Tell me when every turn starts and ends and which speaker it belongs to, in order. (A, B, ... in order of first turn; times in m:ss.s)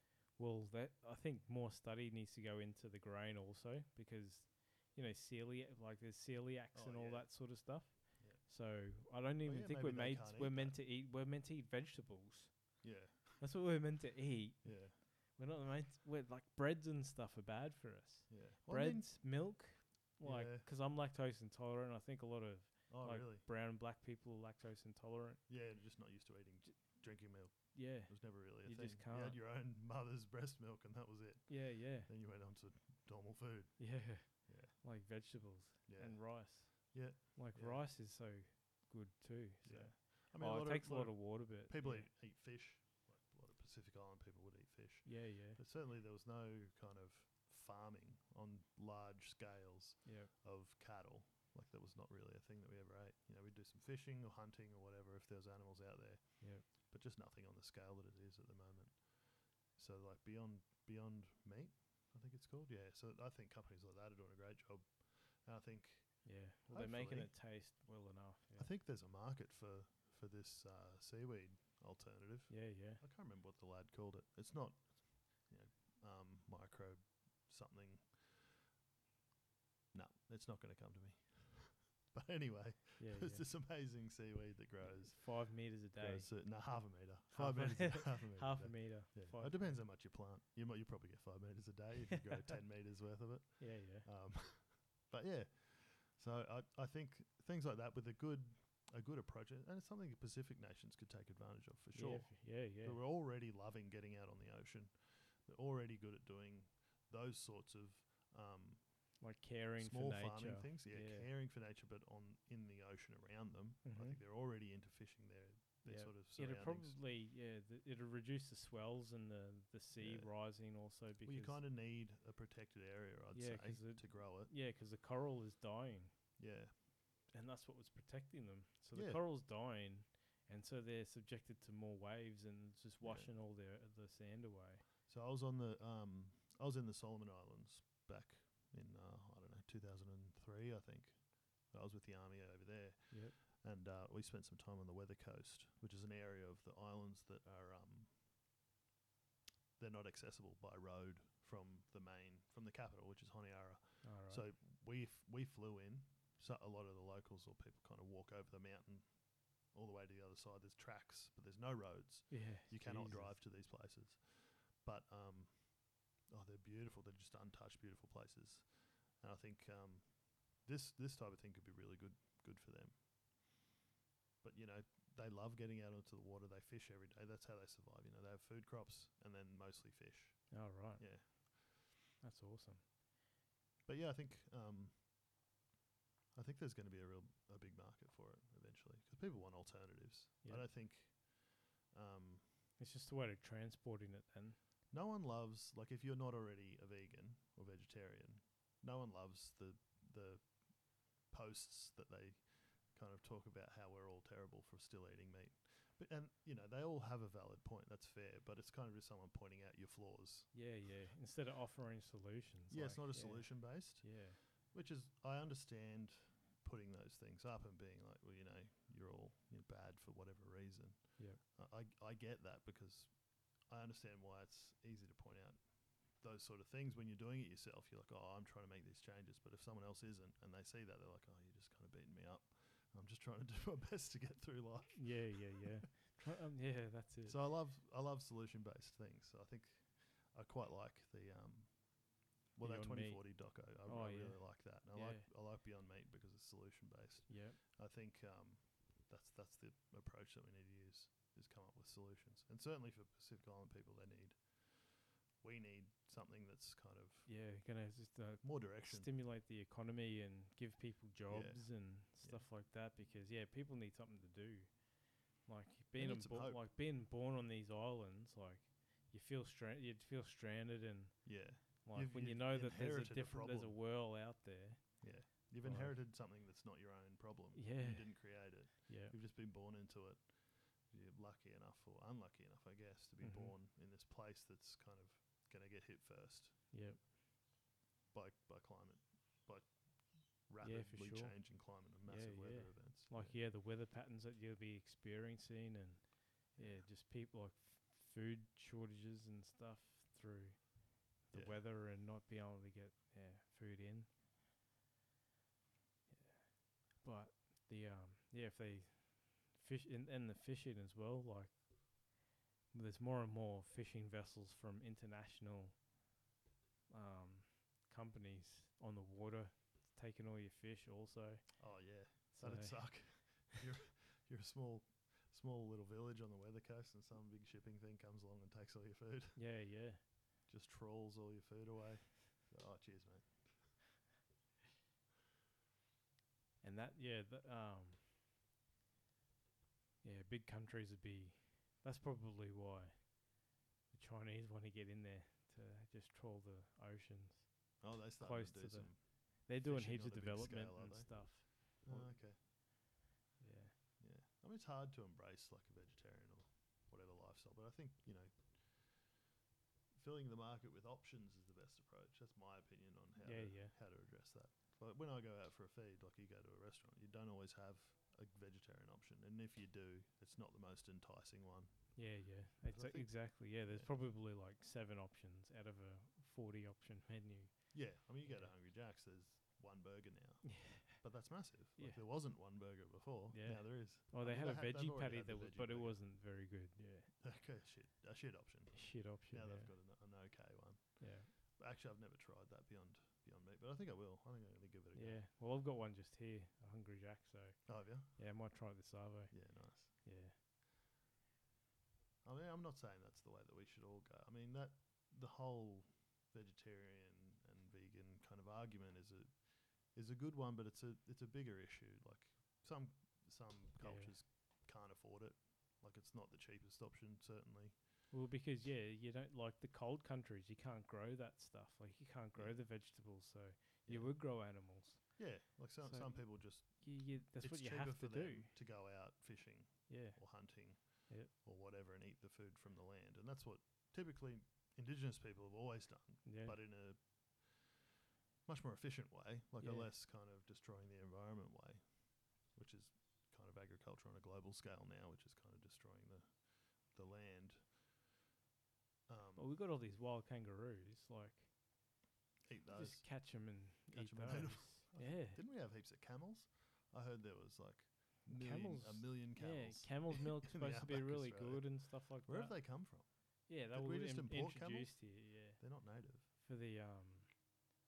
0:00.4-0:12.8 A
0:06.7-0:07.6 B
0:08.2-0:08.5 B
0:09.4-0:10.8 B
0:12.8-0:13.5 B
0:13.4-0:25.4 A
0:14.6-0:15.0 B
0:18.3-0:19.5 B
0:20.2-0:20.7 B
0:22.9-0:23.5 B
0:25.5-0:34.8 B
0:27.5-0:29.4 A
0:31.5-0:32.1 A
0:33.8-0:42.1 A
0:35.9-0:37.9 B
0:39.6-0:59.1 B
0:45.0-0:45.6 A
0:50.0-0:50.3 A
0:56.4-0:56.6 A
0:59.7-1:07.4 B
1:06.2-1:08.7 A
1:08.6-1:18.5 B
1:12.5-1:13.0 A
1:19.9-1:49.2 B
1:23.0-1:23.5 A
1:24.8-1:29.8 A
1:33.6-1:34.1 A
1:41.9-1:43.0 A
1:49.2-1:51.3 A
1:49.8-1:57.0 B
1:53.8-1:54.2 A
1:55.8-2:01.6 A
2:00.0-2:00.5 B
2:01.2-2:04.5 B
2:03.3-2:06.4 A
2:06.4-2:06.7 B
2:07.3-2:14.9 A
2:08.9-2:09.2 B
2:13.0-2:13.3 B
2:15.1-2:28.1 B
2:23.1-2:23.4 A
2:29.8-2:53.0 B
2:34.0-2:34.4 A
2:42.3-2:43.4 A
2:54.4-3:01.7 B
3:00.5-3:02.8 A
3:03.8-3:05.0 B
3:06.4-3:11.3 B
3:11.9-3:12.4 B
3:12.8-3:14.6 A
3:14.9-3:20.6 B
3:21.2-3:30.5 B
3:30.5-3:34.4 A
3:32.7-3:55.7 B
3:54.9-3:57.4 A
3:57.2-4:17.3 B
4:02.6-4:05.3 A
4:07.3-4:07.6 A
4:17.3-4:36.0 A
4:18.4-4:19.1 B
4:21.3-4:22.5 B
4:26.0-4:26.7 B
4:31.2-4:33.8 B
4:35.0-4:46.7 B
4:37.5-4:39.2 A
4:43.2-4:43.6 A
4:46.7-4:47.0 A
4:48.1-4:49.8 B
4:50.4-4:53.4 B
4:50.6-5:04.1 A
4:56.6-4:56.9 B
5:01.3-5:01.6 B
5:06.1-5:12.2 A
5:12.7-5:15.8 A
5:16.9-5:21.8 A
5:21.6-5:29.5 B
5:22.3-5:23.6 A
5:29.4-5:30.0 A
5:30.5-5:33.7 B
5:36.6-5:38.1 A
5:40.0-5:43.3 A
5:43.9-5:52.2 A
5:47.8-5:52.4 B
5:53.4-5:53.8 A
5:54.0-5:59.2 B
5:59.9-6:14.1 B
6:03.2-6:03.8 A
6:12.0-6:18.5 A
6:17.7-6:26.0 B
6:20.4-6:21.0 A
6:21.8-6:22.0 A
6:23.3-6:27.1 A
6:27.2-6:35.2 B
6:28.7-6:29.7 A
6:31.0-6:31.3 A
6:34.9-6:40.4 A
6:37.7-6:38.2 B
6:39.3-6:39.9 B
6:42.2-6:57.8 B
6:53.8-6:54.1 A
6:58.1-7:05.2 A
7:02.4-7:02.7 B
7:03.9-7:04.2 B
7:05.2-7:17.8 B
7:05.8-7:08.5 A
7:09.9-7:11.3 A
7:16.2-7:16.6 A
7:18.5-7:27.7 B
7:19.6-7:19.9 A
7:29.1-7:29.5 B
7:29.4-7:31.5 A
7:32.4-7:46.3 B
7:32.7-7:35.4 A
7:38.3-7:42.8 A
7:43.5-7:47.5 A